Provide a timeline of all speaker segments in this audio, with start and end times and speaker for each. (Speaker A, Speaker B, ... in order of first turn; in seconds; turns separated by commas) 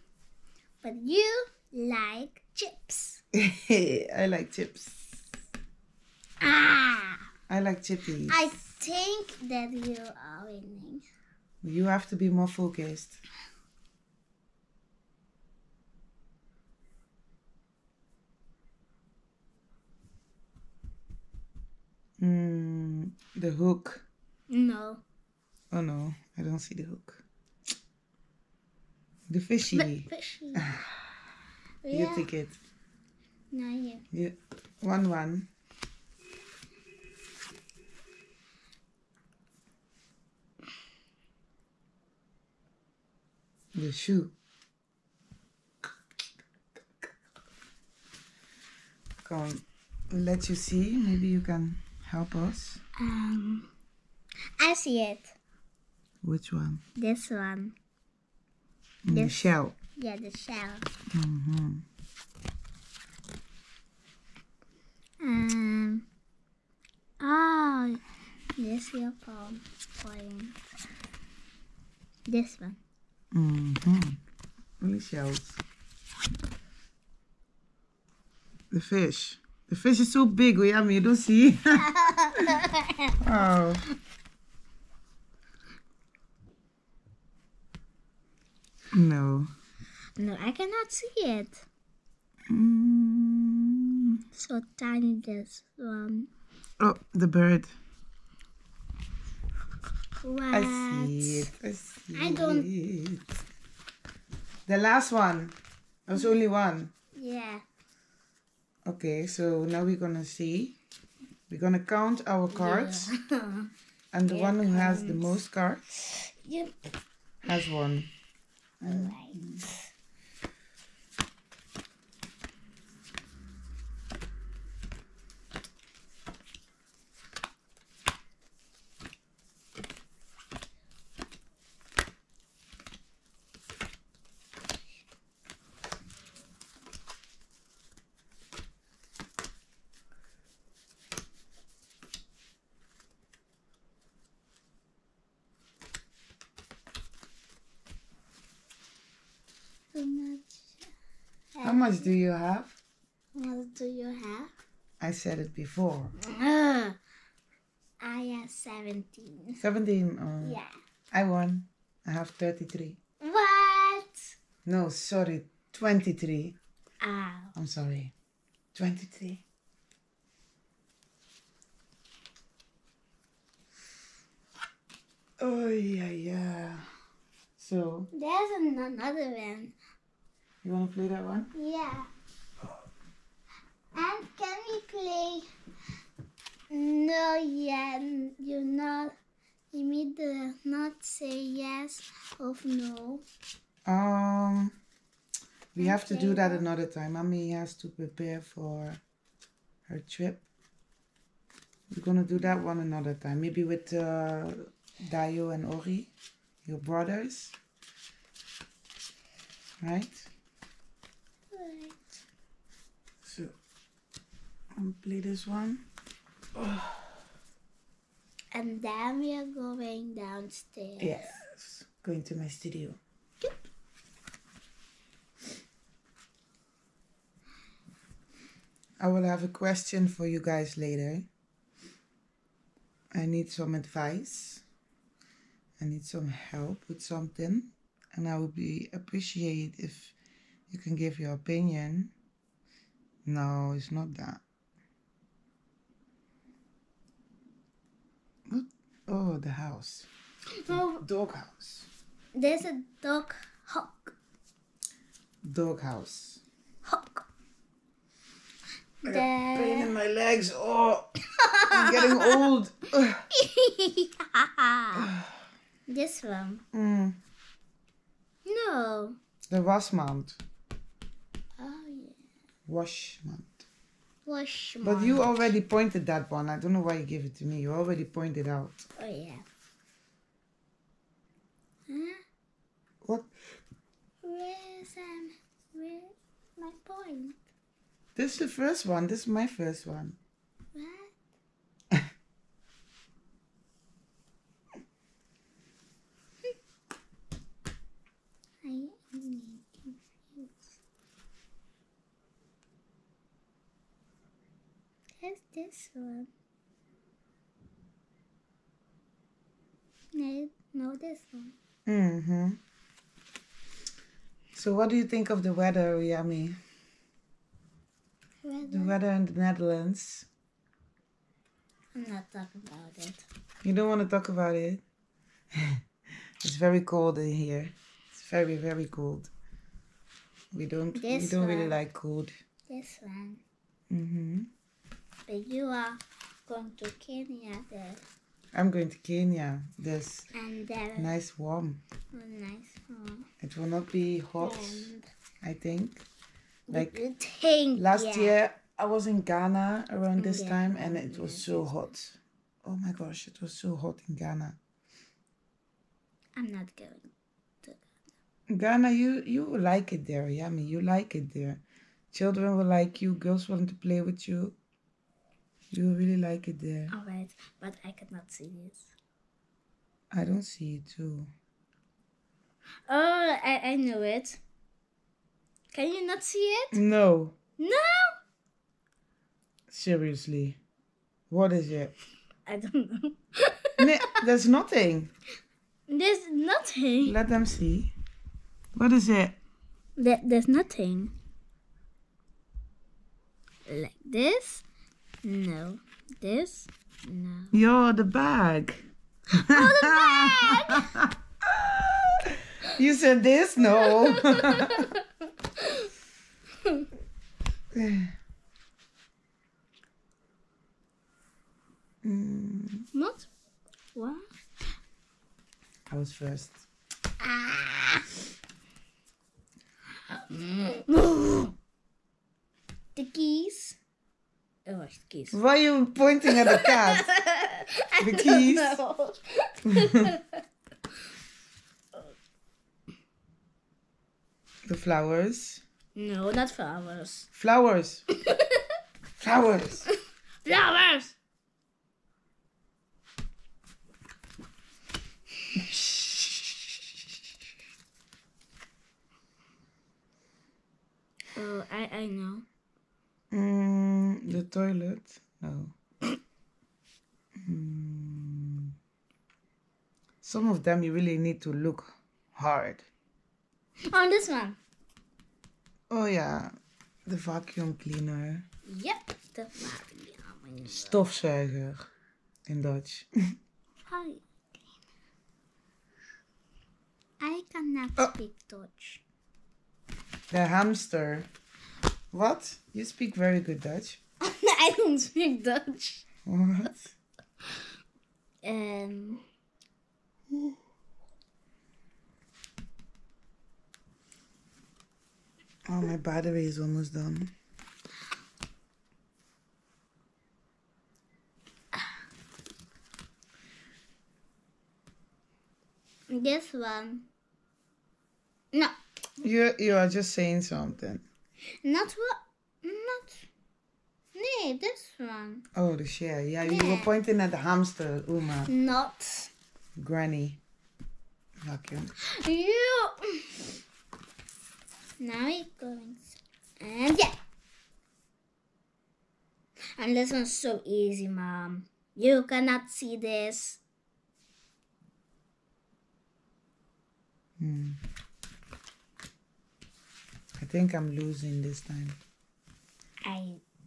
Speaker A: 0.8-3.2, Speaker B: 3.4-5.2, Speaker A: 6.4-7.2, Speaker B: 7.5-8.5, Speaker A: 8.3-11.0, Speaker B: 11.6-13.2, Speaker B: 22.2-24.1, Speaker A: 24.5-25.0, Speaker B: 25.7-27.2, Speaker B: 29.3-30.9, Speaker A: 29.7-30.6, Speaker A: 31.8-32.3, Speaker B: 31.9-32.6, Speaker A: 33.5-34.0, Speaker B: 34.1-35.5, Speaker B: 43.8-44.4, Speaker B: 49.2-52.8, Speaker A: 53.0-53.7, Speaker A: 54.6-55.3, Speaker B: 56.2-56.8, Speaker A: 57.0-57.8, Speaker B: 59.0-59.8, Speaker A: 59.1-60.9, Speaker B: 61.1-61.8, Speaker A: 65.2-66.1, Speaker A: 67.2-68.0, Speaker A: 68.6-70.6, Speaker A: 72.3-72.8, Speaker B: 73.3-74.2, Speaker B: 74.8-75.6, Speaker B: 78.7-81.9, Speaker A: 81.8-83.2, Speaker B: 83.2-83.8, Speaker B: 88.9-89.5, Speaker A: 90.2-91.7, Speaker B: 92.5-94.0, Speaker A: 94.3-96.3, Speaker B: 96.8-97.7, Speaker A: 100.2-101.5, Speaker B: 100.5-103.3, Speaker A: 102.1-102.7, Speaker B: 104.7-105.6, Speaker B: 106.1-106.9, Speaker A: 107.2-107.6, Speaker B: 108.9-110.8, Speaker B: 111.5-113.2, Speaker A: 112.5-113.7, Speaker B: 114.1-115.9, Speaker A: 114.2-115.4, Speaker A: 116.1-116.7, Speaker B: 117.4-118.1, Speaker B: 118.8-119.6, Speaker A: 118.9-119.8, Speaker A: 149.9-150.9, Speaker A: 151.6-152.2, Speaker B: 151.6-152.8, Speaker A: 153.3-154.5, Speaker B: 155.0-156.2, Speaker A: 156.2-157.0, Speaker A: 158.0-159.6, Speaker B: 159.6-160.6, Speaker A: 160.4-160.7, Speaker B: 161.1-163.0, Speaker A: 163.2-164.2, Speaker B: 164.7-166.6, Speaker A: 167.0-167.6, Speaker B: 167.6-168.1, Speaker B: 168.8-169.4, Speaker B: 175.4-176.9, Speaker B: 177.6-178.1, Speaker A: 178.1-179.8, Speaker B: 180.6-181.5, Speaker A: 181.5-182.1, Speaker A: 183.9-185.5, Speaker A: 186.7-189.1, Speaker A: 189.7-193.2, Speaker B: 193.9-194.7, Speaker B: 195.7-199.0, Speaker A: 195.8-196.7, Speaker B: 199.9-200.4, Speaker B: 201.9-206.1, Speaker B: 206.7-207.6, Speaker B: 209.8-210.3, Speaker A: 211.5-212.0, Speaker B: 213.2-213.5, Speaker B: 214.8-215.9, Speaker B: 216.6-216.9, Speaker A: 218.5-221.3, Speaker B: 221.0-223.0, Speaker B: 229.0-231.3, Speaker B: 233.1-234.6, Speaker B: 235.8-240.2, Speaker B: 240.7-242.1, Speaker B: 243.2-244.4, Speaker B: 248.5-250.1, Speaker A: 250.6-251.0, Speaker B: 250.7-251.9, Speaker A: 252.3-254.1, Speaker B: 255.4-256.4, Speaker A: 256.9-257.2, Speaker A: 259.0-259.9, Speaker B: 259.0-261.2, Speaker A: 261.3-262.5, Speaker B: 261.7-263.3, Speaker A: 263.3-265.1, Speaker B: 264.9-265.3, Speaker A: 265.9-266.6, Speaker B: 266.7-267.2, Speaker A: 268.4-269.2, Speaker B: 269.5-270.4, Speaker A: 271.6-272.2, Speaker B: 272.7-273.7, Speaker A: 274.3-275.5, Speaker B: 274.8-278.9, Speaker A: 279.0-279.4, Speaker A: 281.9-282.2, Speaker B: 283.0-283.3, Speaker A: 284.2-287.4, Speaker B: 288.2-290.2, Speaker A: 290.7-291.1, Speaker A: 298.6-300.7, Speaker A: 305.2-306.3, Speaker A: 310.1-311.6, Speaker B: 311.9-312.6, Speaker B: 314.5-316.6, Speaker A: 318.4-319.0, Speaker B: 318.7-320.3, Speaker A: 321.9-323.2, Speaker B: 323.6-324.8, Speaker B: 326.4-329.3, Speaker B: 330.5-332.3, Speaker A: 330.9-331.8, Speaker A: 332.7-333.4, Speaker B: 333.9-334.5, Speaker A: 335.3-338.0, Speaker B: 338.5-340.3, Speaker A: 340.3-341.2, Speaker B: 341.0-341.8, Speaker A: 342.1-343.3, Speaker B: 343.4-346.1, Speaker A: 344.4-345.1, Speaker A: 346.7-348.4, Speaker B: 346.7-347.0, Speaker B: 347.8-354.6, Speaker A: 350.2-351.7, Speaker A: 356.4-357.1, Speaker B: 358.5-364.6, Speaker B: 365.7-366.9, Speaker A: 366.9-368.9, Speaker B: 370.1-371.3, Speaker A: 372.9-374.4, Speaker A: 375.7-376.8, Speaker B: 376.7-377.4, Speaker A: 377.6-378.1, Speaker B: 379.7-380.6, Speaker B: 381.3-381.9, Speaker A: 382.5-383.8, Speaker B: 383.8-385.1, Speaker A: 385.9-387.2, Speaker B: 387.0-387.9, Speaker B: 388.8-389.4, Speaker A: 390.0-391.1, Speaker A: 393.7-394.6, Speaker A: 395.2-397.6, Speaker B: 397.5-401.1, Speaker A: 399.5-400.9, Speaker B: 402.7-404.9, Speaker A: 403.8-405.9, Speaker B: 407.7-408.1, Speaker B: 412.0-412.9, Speaker A: 412.9-413.3, Speaker A: 413.9-414.2, Speaker B: 415.9-416.6, Speaker A: 417.2-418.1, Speaker A: 420.3-421.5, Speaker A: 423.0-423.8, Speaker A: 424.7-425.4, Speaker B: 425.3-427.1, Speaker A: 426.3-430.4, Speaker B: 428.0-428.8, Speaker B: 429.7-430.1, Speaker B: 434.7-435.6, Speaker A: 435.9-437.3, Speaker B: 437.3-438.0, Speaker A: 438.2-438.6, Speaker B: 439.2-439.9, Speaker A: 439.9-441.2, Speaker B: 445.6-446.4, Speaker A: 451.4-452.5, Speaker B: 453.3-455.8, Speaker B: 457.4-458.7, Speaker B: 460.2-462.9, Speaker A: 463.9-464.6, Speaker B: 465.9-466.5, Speaker B: 467.1-468.4, Speaker A: 468.6-471.1, Speaker B: 470.7-471.8, Speaker B: 472.5-473.1, Speaker A: 473.9-474.2, Speaker A: 477.2-479.0, Speaker B: 480.3-481.3, Speaker B: 482.1-484.0, Speaker A: 484.2-486.1, Speaker B: 486.3-486.9, Speaker A: 488.4-489.2, Speaker B: 495.7-497.3, Speaker A: 506.1-507.1, Speaker B: 509.2-511.1, Speaker A: 511.6-513.3, Speaker A: 514.1-515.5, Speaker B: 515.5-518.5, Speaker A: 516.4-516.9, Speaker A: 518.5-519.3, Speaker B: 519.8-520.4, Speaker B: 521.4-521.9, Speaker A: 522.1-523.5, Speaker A: 525.0-527.1, Speaker A: 529.8-533.6, Speaker B: 537.4-537.8, Speaker B: 540.4-542.0, Speaker A: 543.0-543.4